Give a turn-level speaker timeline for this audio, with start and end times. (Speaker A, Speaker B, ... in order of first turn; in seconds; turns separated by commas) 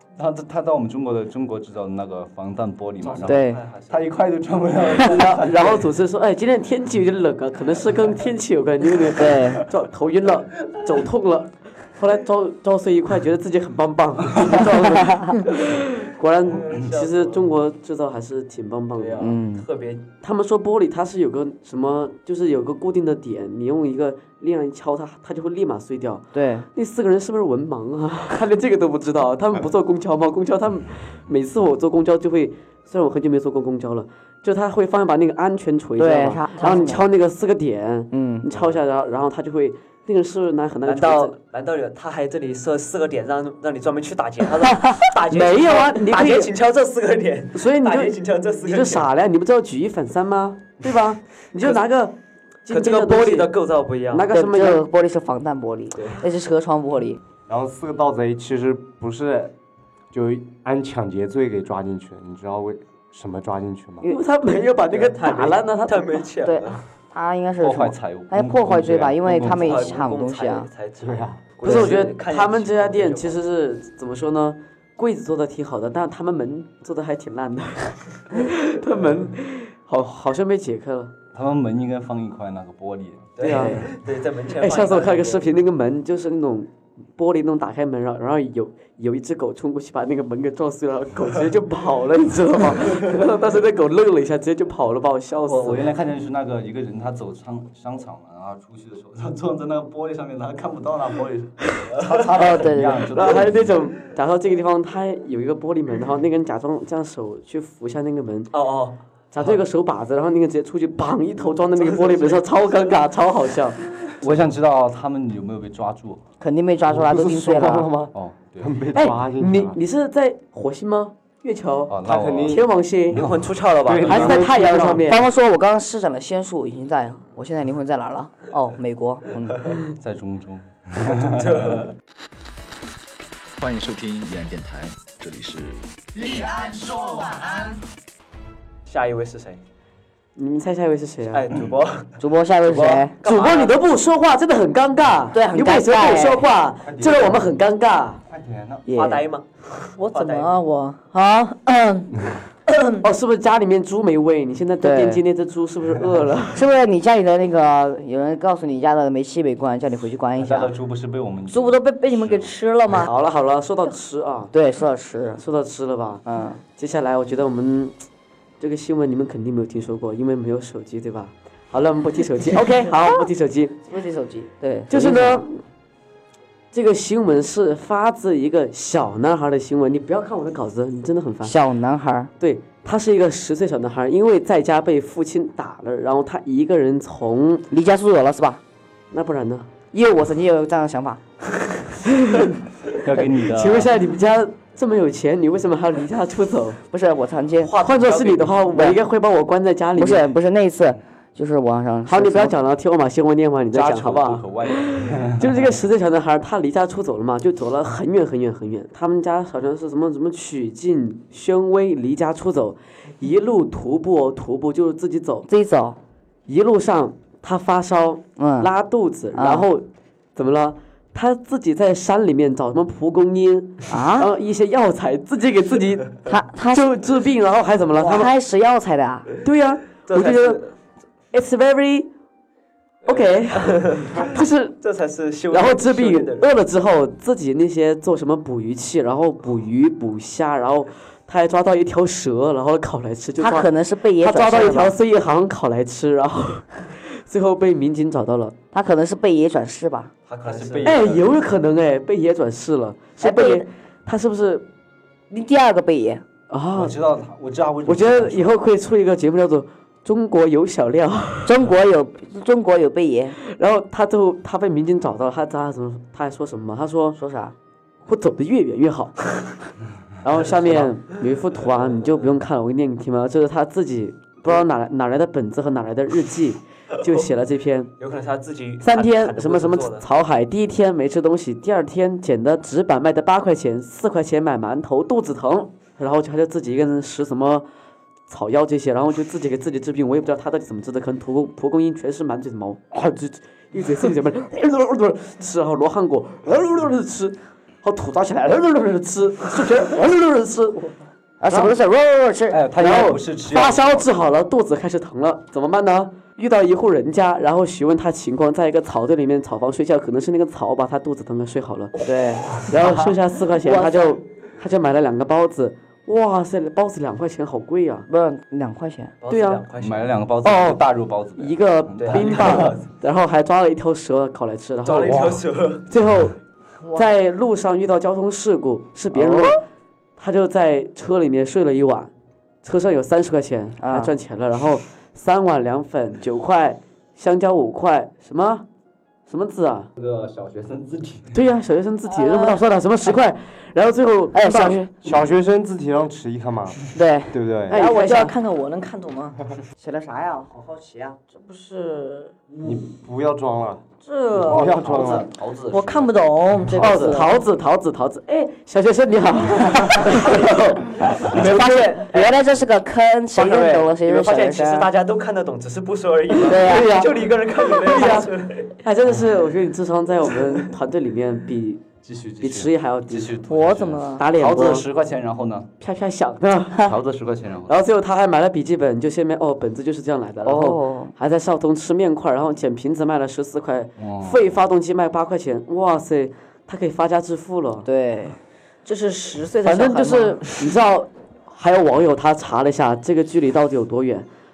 Speaker A: 0.2-5.9, Speaker B: 3.0-4.1, Speaker C: 3.3-3.6, Speaker D: 5.0-19.3, Speaker C: 9.1-9.7, Speaker C: 14.9-15.3, Speaker B: 16.4-17.6, Speaker B: 18.9-20.1, Speaker C: 19.2-19.7, Speaker D: 20.2-41.4, Speaker C: 26.3-26.7, Speaker C: 36.0-37.0, Speaker C: 38.1-38.5, Speaker B: 40.9-49.1, Speaker D: 45.3-46.5, Speaker D: 47.5-53.5, Speaker B: 52.7-54.3, Speaker D: 54.1-54.8, Speaker C: 54.3-57.2, Speaker B: 55.9-56.2, Speaker E: 57.5-59.5, Speaker E: 60.1-64.1, Speaker D: 64.1-66.3, Speaker B: 64.9-66.8, Speaker C: 66.4-70.7, Speaker A: 67.6-70.0, Speaker E: 68.7-69.3, Speaker B: 69.4-73.4, Speaker E: 71.0-71.8, Speaker D: 71.6-81.1, Speaker A: 81.3-83.8, Speaker B: 83.4-85.5, Speaker D: 83.4-84.0, Speaker D: 84.6-95.9, Speaker A: 95.5-103.8, Speaker C: 102.3-103.2, Speaker D: 103.1-108.5, Speaker B: 108.5-109.0, Speaker D: 109.3-114.1, Speaker B: 111.8-112.5, Speaker A: 114.2-116.2, Speaker C: 116.4-117.9, Speaker E: 116.9-119.8, Speaker A: 118.1-118.8, Speaker D: 118.9-122.0, Speaker A: 121.9-123.5, Speaker E: 122.0-122.7, Speaker D: 122.5-123.2, Speaker B: 123.2-124.5, Speaker E: 123.8-125.1, Speaker D: 124.0-125.2, Speaker C: 125.0-129.6, Speaker A: 129.9-131.9, Speaker B: 131.1-131.9, Speaker F: 133.6-135.8, Speaker B: 138.9-139.6, Speaker D: 140.4-141.4, Speaker B: 141.3-143.8, Speaker C: 142.2-143.2, Speaker D: 143.2-148.2, Speaker C: 145.3-146.5, Speaker A: 146.8-147.6, Speaker A: 148.3-148.9, Speaker C: 148.9-149.3, Speaker B: 148.9-150.6, Speaker G: 150.0-153.0, Speaker D: 153.0-156.7, Speaker C: 154.8-155.2, Speaker C: 156.5-160.7, Speaker A: 160.4-162.5, Speaker G: 161.5-163.1, Speaker D: 163.0-164.5, Speaker C: 164.5-165.4, Speaker D: 165.4-166.2, Speaker C: 166.2-166.6, Speaker D: 166.8-168.1, Speaker D: 168.6-173.8, Speaker C: 173.9-175.4, Speaker D: 174.9-175.6, Speaker D: 176.7-181.6, Speaker C: 181.4-182.3, Speaker D: 182.4-187.7, Speaker C: 187.7-188.6, Speaker D: 189.1-189.7, Speaker C: 189.9-191.2, Speaker D: 192.2-192.5, Speaker A: 192.9-193.9, Speaker D: 193.5-196.8, Speaker C: 196.9-197.7, Speaker D: 197.7-200.3, Speaker B: 197.7-198.5, Speaker C: 198.7-199.0, Speaker C: 200.0-202.6, Speaker D: 202.1-215.5, Speaker A: 203.7-205.7, Speaker C: 215.5-216.0, Speaker D: 216.5-226.1, Speaker C: 218.4-218.7, Speaker C: 219.3-219.7, Speaker C: 223.9-224.3, Speaker C: 226.2-226.9, Speaker D: 226.7-228.3, Speaker C: 228.0-229.3, Speaker D: 229.4-230.6, Speaker B: 230.1-230.7, Speaker D: 231.3-232.1, Speaker D: 233.1-234.8, Speaker B: 233.1-234.3, Speaker B: 234.8-236.5, Speaker D: 235.5-248.6, Speaker C: 243.4-244.9, Speaker C: 248.7-250.1, Speaker B: 250.3-251.0, Speaker A: 250.4-251.4, Speaker D: 250.8-254.7, Speaker C: 253.2-253.7, Speaker C: 255.3-256.2, Speaker D: 256.5-257.0, Speaker A: 256.8-258.5, Speaker D: 257.9-261.6, Speaker C: 261.5-263.4, Speaker D: 263.4-267.2, Speaker C: 267.1-267.6, Speaker D: 268.1-269.4, Speaker D: 270.2-277.9, Speaker B: 278.0-280.1, Speaker D: 278.8-287.7, Speaker D: 288.3-300.9, Speaker C: 301.4-302.6, Speaker A: 302.5-304.1, Speaker D: 302.8-311.9, Speaker C: 312.0-313.0, Speaker D: 312.6-318.1, Speaker C: 313.7-314.2, Speaker C: 318.1-319.1, Speaker B: 319.2-320.3, Speaker D: 319.3-319.6, Speaker A: 319.8-322.8, Speaker D: 320.4-320.8, Speaker D: 321.4-326.4, Speaker B: 322.0-322.9, Speaker B: 324.9-325.9, Speaker D: 326.9-329.6, Speaker C: 329.1-329.5, Speaker D: 330.2-332.1, Speaker D: 332.6-338.7, Speaker C: 333.8-334.1, Speaker D: 339.3-339.9, Speaker A: 340.0-341.4, Speaker D: 341.3-344.8, Speaker C: 344.3-344.9, Speaker E: 345.0-346.8, Speaker C: 346.9-347.4, Speaker E: 347.3-347.8, Speaker D: 347.7-348.4, Speaker G: 347.7-349.4, Speaker C: 349.8-351.2, Speaker G: 351.3-352.4, Speaker E: 352.6-355.3, Speaker G: 354.0-354.8, Speaker A: 354.5-356.2, Speaker G: 355.7-357.4, Speaker D: 356.8-361.9, Speaker C: 361.3-364.9, Speaker B: 363.4-368.8, Speaker C: 366.4-367.1, Speaker D: 366.4-368.3, Speaker D: 368.8-371.9, Speaker A: 372.0-375.7, Speaker D: 372.4-373.4, Speaker G: 373.5-374.3, Speaker D: 374.2-374.9, Speaker D: 375.8-376.8, Speaker A: 376.8-377.8, Speaker D: 377.7-387.9, Speaker C: 380.4-381.1, Speaker A: 384.0-384.4, Speaker C: 387.9-388.4, Speaker G: 388.9-390.4, Speaker D: 389.6-394.3